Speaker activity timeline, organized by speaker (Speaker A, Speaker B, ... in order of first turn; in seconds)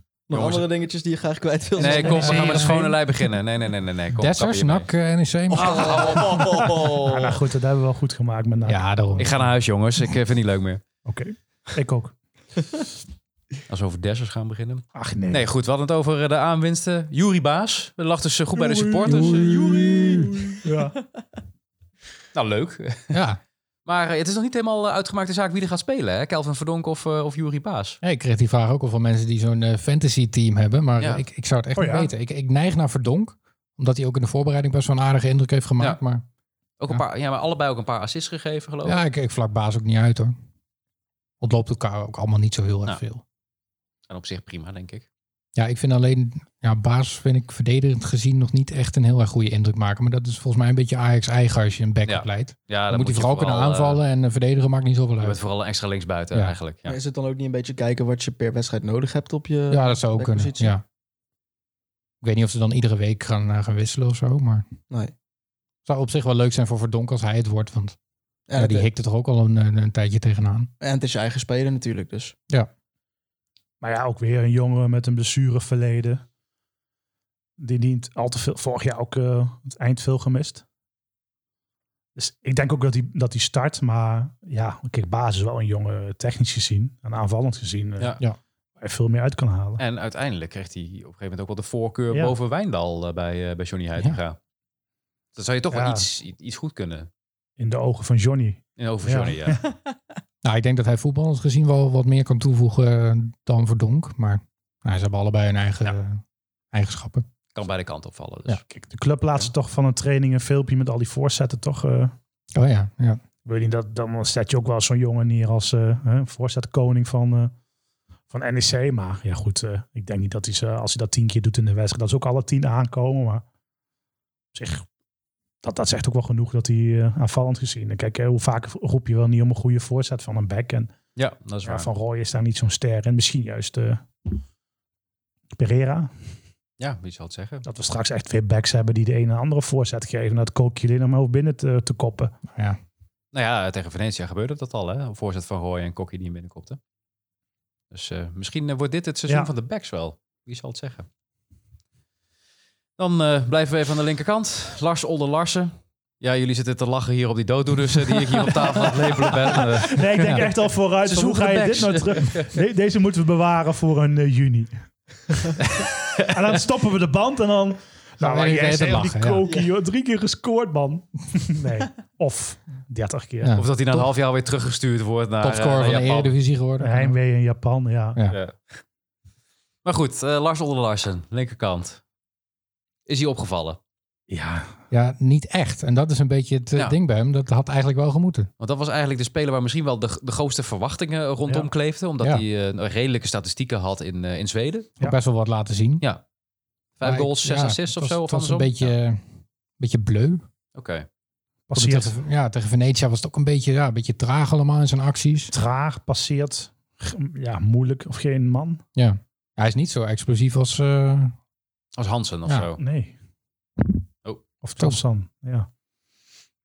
Speaker A: 0.3-2.6, 5.5-7.1, 56.9-60.7, 68.5-68.9, 70.8-72.3
Speaker B: 0.3-0.7, 1.8-4.9, 5.5-7.1, 9.2-10.8, 13.7-20.4, 22.3-23.2, 23.9-28.0, 31.0-31.2, 36.8-39.0, 44.1-45.1, 52.1-54.0, 55.2-57.0, 89.8-94.4, 95.4-97.1, 98.8-99.6, 107.5-108.6, 131.2-131.9, 136.8-137.7, 143.3-146.8, 147.9-151.1, 153.0-160.4, 161.1-162.6, 165.7-166.3, 173.6-176.3, 178.3-178.5, 179.8-182.0, 183.1-183.8, 188.6-194.9, 197.0-198.9, 200.8-201.1, 212.0-212.8
Speaker C: 1.8-3.0, 6.2-8.8, 11.1-12.2, 14.9-15.4, 18.6-21.0, 31.8-32.1, 73.8-76.2, 77.6-80.6, 82.2-88.2, 88.8-89.8, 95.7-96.1, 97.6-99.6, 108.7-112.1, 113.5-117.5, 118.3-123.4, 124.5-124.9, 125.6-130.9, 131.6-134.4, 135.6-136.1, 137.7-142.3, 159.9-164.8, 166.2-173.6, 176.8-178.2, 184.3-184.8, 201.7-202.2, 205.5-208.8, 212.8-213.2, 214.6-215.7
Speaker D: 2.2-2.7, 4.2-6.1, 8.7-9.4, 23.1-23.4, 28.0-36.2, 38.9-40.4, 41.4-43.2, 45.6-55.4, 59.7-60.8, 62.2-64.7, 65.9-68.0, 68.6-70.7, 100.4-107.2, 112.5-113.2, 142.5-142.8, 160.2-160.5, 168.2-169.5, 173.4-174.1, 175.4-177.2, 184.9-188.5, 195.0-196.0, 197.0-199.2, 199.8-200.4, 201.7-205.5, 209.0-211.3